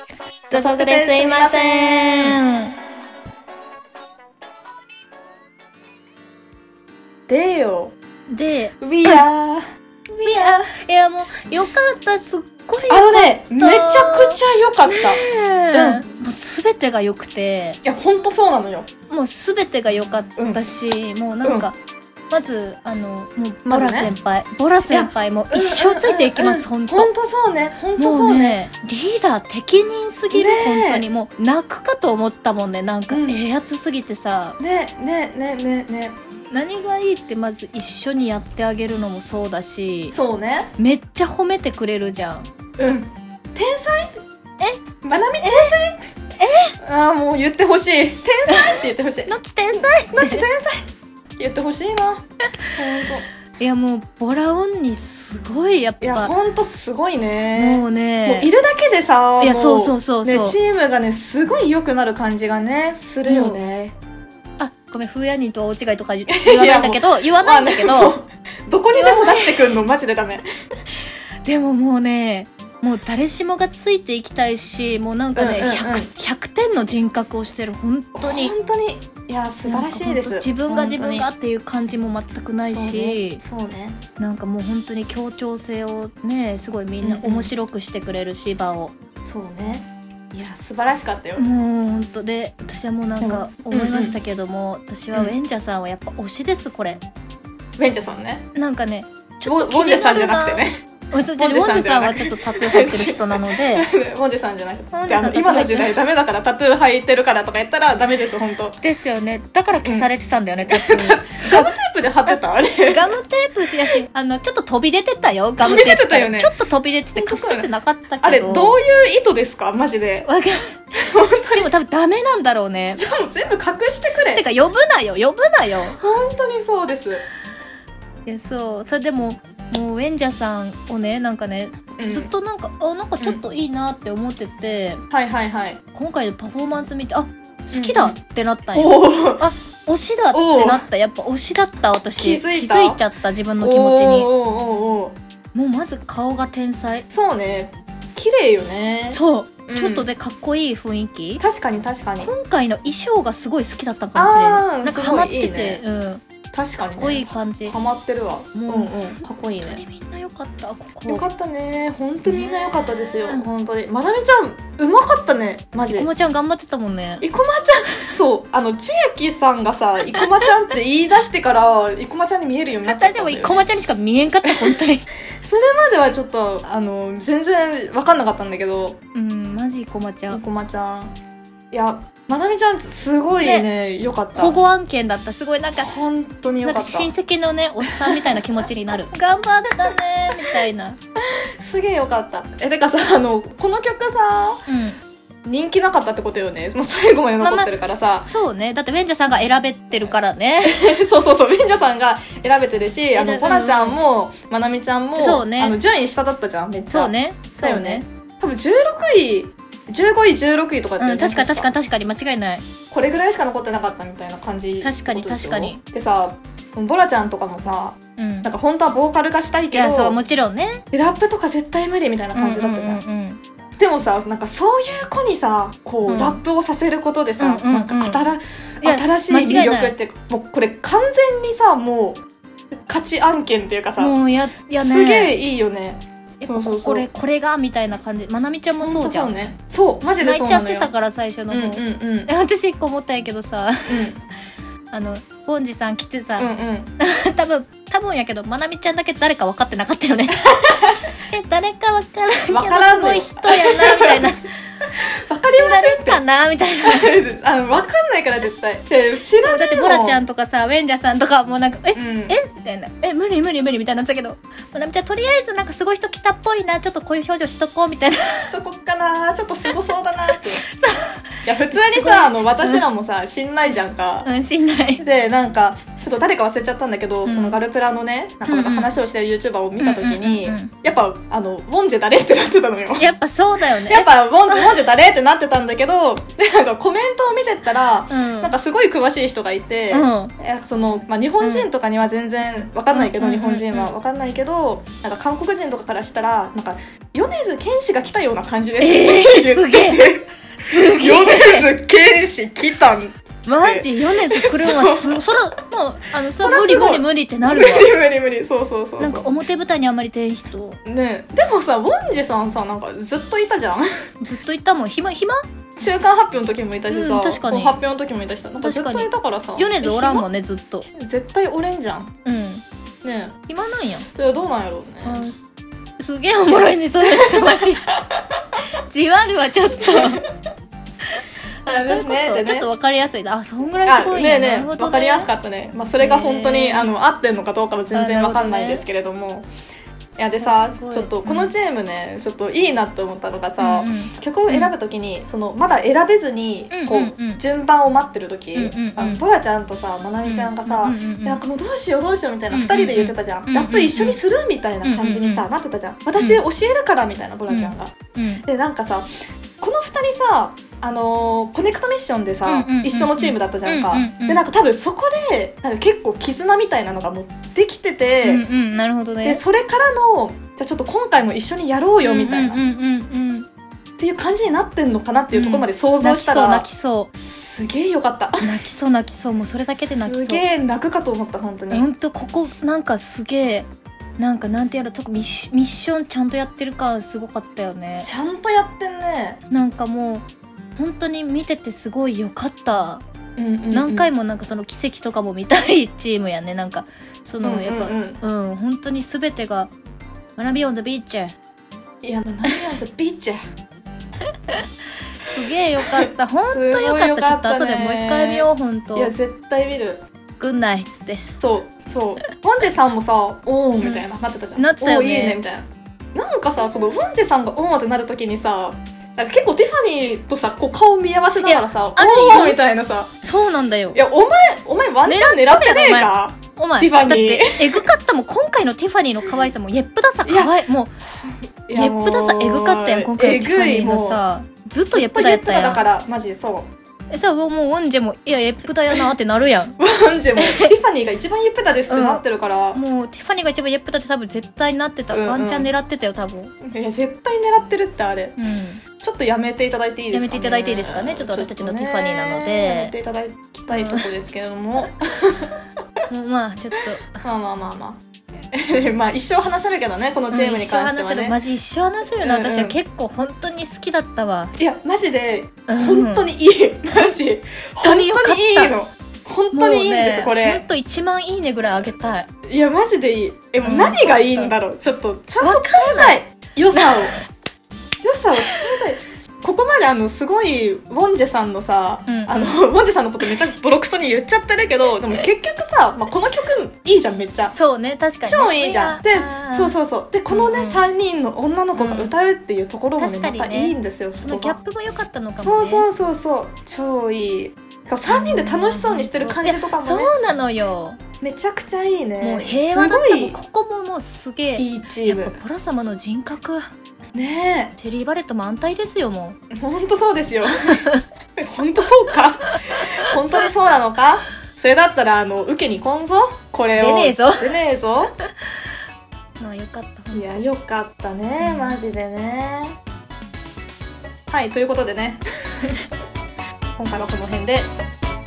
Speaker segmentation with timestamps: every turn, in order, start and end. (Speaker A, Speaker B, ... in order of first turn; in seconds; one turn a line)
Speaker A: 0.5-2.8
Speaker B: 0.5-2.4
Speaker B: 7.3-7.9
Speaker A: 8.3-9.2
Speaker B: 8.8-10.7
Speaker A: 10.2-17.8
Speaker B: 12.9-16.1
Speaker B: 17.8-18.9
Speaker A: 19.1-21.8
Speaker B: 20.4-20.6
Speaker B: 21.4-21.7
Speaker A: 22.3-27.1
Speaker B: 23.6-24.1
Speaker B: 24.9-28.6
Speaker A: 27.9-34.6
Speaker B: 30.3-31.0
Speaker B: 33.1-33.4
Speaker B: 34.6-36.1
Speaker A: 36.5-40.1
Speaker B: 40.1-40.7
Speaker A: 40.8-42.5
Speaker B: 42.8-44.2
Speaker B: 45.0-46.1
Speaker A: 45.4-45.7
Speaker A: 46.4-46.7
Speaker B: 46.8-52.2
Speaker A: 49.3-50.4
Speaker B: 52.8-53.2
Speaker A: 53.6-56.3
Speaker B: 56.0-64.0
Speaker A: 57.5-58.5
Speaker A: 59.4-60.6
Speaker A: 63.2-63.6
Speaker A: 64.6-68.2
Speaker B: 66.3-70.4
Speaker A: 68.9-69.6
Speaker A: 71.4-78.5
Speaker B: 75.3-76.1
Speaker B: 78.1-81.3
Speaker A: 79.6-83.4
Speaker B: 82.6-84.0
Speaker A: 84.2-88.9
Speaker B: 87.0-87.5
Speaker B: 89.2-91.4
Speaker A: 91.3-97.0
Speaker B: 93.2-94.2
Speaker B: 97.8-98.5
Speaker A: 98.5-103.9
Speaker B: 99.4-100.8
Speaker B: 101.4-108.8
Speaker A: 104.9-106.0
Speaker A: 108.8-111.7
Speaker B: 109.8-110.1
Speaker B: 110.7-113.2
Speaker A: 112.9-118.8
Speaker B: 115.6-116.5
Speaker B: 117.1-117.7
Speaker B: 118.2-120.3
Speaker A: 120.3-120.6
Speaker B: 121.0-121.7
Speaker A: 121.5-123.0
Speaker B: 122.9-124.4
Speaker A: 124.3-126.0
Speaker B: 126.0-127.2
Speaker A: 128.2-135.0
Speaker B: 132.0-132.3
Speaker B: 135.1-135.8
Speaker A: 135.9-144.3
Speaker B: 137.7-138.2
Speaker B: 138.7-139.4
Speaker B: 140.3-140.8
Speaker B: 142.2-143.0
Speaker B: 143.6-145.2
Speaker A: 145.5-147.1
Speaker B: 147.1-150.1
Speaker A: 149.1-151.4
Speaker B: 151.4-152.3
Speaker A: 152.2-156.2
Speaker B: 154.1-155.8
Speaker B: 156.5-159.8
Speaker A: 156.9-157.8
Speaker A: 158.5-161.2
Speaker B: 161.1-166.1
Speaker A: 162.2-163.5
Speaker A: 165.9-167.2
Speaker B: 167.2-173.7
Speaker A: 172.8-175.1
Speaker B: 175.4-179.0
Speaker A: 179.1-180.4
Speaker B: 180.3-181.1
Speaker B: 181.7-184.6
Speaker A: 183.4-183.7
Speaker A: 184.3-185.9
Speaker B: 185.7-187.1
Speaker A: 186.6-191.0
Speaker B: 188.0-188.4
Speaker B: 191.6-194.6
Speaker A: 194.7-195.0
Speaker B: 195.4-198.3
Speaker A: 197.4-197.7
Speaker A: 198.2-200.8
Speaker B: 200.6-211.7
Speaker A: 203.1-204.0
Speaker A: 205.2-205.8
Speaker A: 206.9-208.0
Speaker A: 211.0-212.6
Speaker B: 212.9-220.2
Speaker A: 214.8-215.8
Speaker A: 218.2-218.5
Speaker A: 219.7-220.8
Speaker B: 220.9-223.0
Speaker A: 222.3-223.4
Speaker B: 223.8-232.2
Speaker A: 226.1-226.4
Speaker A: 227.4-228.2
Speaker A: 228.8-229.9
Speaker B: 232.7-234.2
Speaker A: 234.0-235.4
Speaker B: 234.7-237.1
Speaker A: 236.4-239.3
Speaker B: 238.8-240.9
Speaker A: 240.2-244.1
Speaker B: 241.5-242.3
Speaker B: 243.9-244.2
Speaker A: 244.9-250.5
Speaker B: 246.4-246.9
Speaker B: 250.4-251.0
Speaker A: 251.3-254.5
Speaker B: 252.5-254.3
Speaker B: 255.2-256.2
Speaker A: 255.5-257.1
Speaker B: 256.8-260.2
Speaker A: 259.4-268.5
Speaker B: 261.9-262.4
Speaker B: 268.4-270.6
Speaker A: 270.3-272.8
Speaker B: 271.4-274.3
Speaker A: 274.2-275.0
Speaker B: 275.0-283.1
Speaker A: 277.2-277.6
Speaker A: 278.5-278.9
Speaker A: 279.8-280.7
Speaker A: 283.0-284.8
Speaker B: 283.9-305.3
Speaker A: 288.1-288.5
Speaker A: 289.9-290.3
Speaker A: 291.4-291.7
Speaker A: 292.9-293.9
Speaker A: 298.8-301.7
Speaker A: 303.4-307.9
Speaker B: 306.4-309.3
Speaker A: 309.0-310.8
Speaker B: 310.9-313.9
Speaker A: 314.2-315.4
Speaker B: 315.8-320.2
Speaker A: 316.9-317.8
Speaker A: 318.6-320.9
Speaker B: 320.9-322.1
Speaker A: 322.2-322.6
Speaker B: 323.0-323.4
Speaker A: 323.5-324.1
Speaker B: 324.1-325.3
Speaker A: 325.0-325.4
Speaker A: 326.0-327.8
Speaker B: 327.0-328.0
Speaker A: 328.9-330.2
Speaker A: 331.2-335.3
Speaker B: 331.6-332.7
Speaker B: 333.8-339.5
Speaker A: 336.0-336.9
Speaker A: 337.9-338.8
Speaker B: 340.1-359.1
Speaker A: 340.4-341.5
Speaker A: 343.6-344.7
Speaker A: 346.7-347.4
Speaker A: 348.5-349.2
Speaker A: 350.2-351.4
Speaker A: 352.5-354.2
Speaker A: 354.8-355.4
Speaker A: 357.5-358.4
Speaker B: 359.6-368.4
Speaker A: 362.4-364.4
Speaker A: 368.2-369.4
Speaker B: 369.2-372.6
Speaker A: 372.0-373.5
Speaker B: 374.0-378.5
Speaker A: 375.3-377.1
Speaker A: 378.4-380.4
Speaker B: 379.8-381.9
Speaker A: 381.7-383.7
Speaker A: 384.2-388.1
Speaker B: 388.0-389.4
Speaker A: 389.5-390.2
Speaker A: 390.8-393.0
Speaker B: 393.4-394.1
Speaker A: 393.7-399.7
Speaker B: 397.4-398.2
Speaker A: 400.4-401.3
Speaker B: 402.0-403.4
Speaker A: 405.2-409.1
Speaker B: 405.9-410.0
Speaker A: 410.4-411.3
Speaker B: 411.4-423.1
Speaker A: 413.8-415.4
Speaker A: 421.4-422.6
Speaker A: 423.2-424.0
Speaker B: 423.9-427.8
Speaker A: 425.1-430.9
Speaker B: 430.2-430.5
Speaker B: 431.2-434.2
Speaker A: 431.7-435.8
Speaker B: 434.9-436.7
Speaker A: 437.1-439.8
Speaker B: 439.8-442.8
Speaker A: 440.4-440.7
Speaker A: 441.9-446.5
Speaker B: 445.1-445.7
Speaker B: 446.6-448.4
Speaker A: 448.4-448.8
Speaker B: 449.0-455.6
Speaker A: 450.1-452.9
Speaker A: 453.7-454.1
Speaker A: 456.1-457.2
Speaker B: 457.2-461.4
Speaker A: 460.3-464.5
Speaker B: 462.2-462.8
Speaker B: 464.6-470.6
Speaker A: 465.7-466.3
Speaker A: 467.8-468.7
Speaker A: 469.5-472.3
Speaker B: 472.5-477.1
Speaker A: 473.6-474.6
Speaker A: 475.4-476.2
Speaker A: 476.7-477.2
Speaker B: 478.0-487.5
Speaker A: 482.1-482.6
Speaker A: 487.5-489.8
Speaker B: 488.3-494.6
Speaker A: 490.3-490.8
Speaker A: 491.8-492.1
Speaker A: 493.0-495.9
Speaker B: 495.4-500.1
Speaker A: 498.1-501.0
Speaker B: 501.2-503.4
Speaker A: 502.2-506.7
Speaker B: 504.6-505.4
Speaker B: 507.1-507.7
Speaker A: 507.8-509.4
Speaker B: 509.5-510.8
Speaker B: 511.4-518.1
Speaker A: 516.7-517.6
Speaker A: 519.4-520.4
Speaker B: 520.1-522.8
Speaker A: 521.4-521.8
Speaker B: 524.3-525.8
Speaker B: 526.8-527.7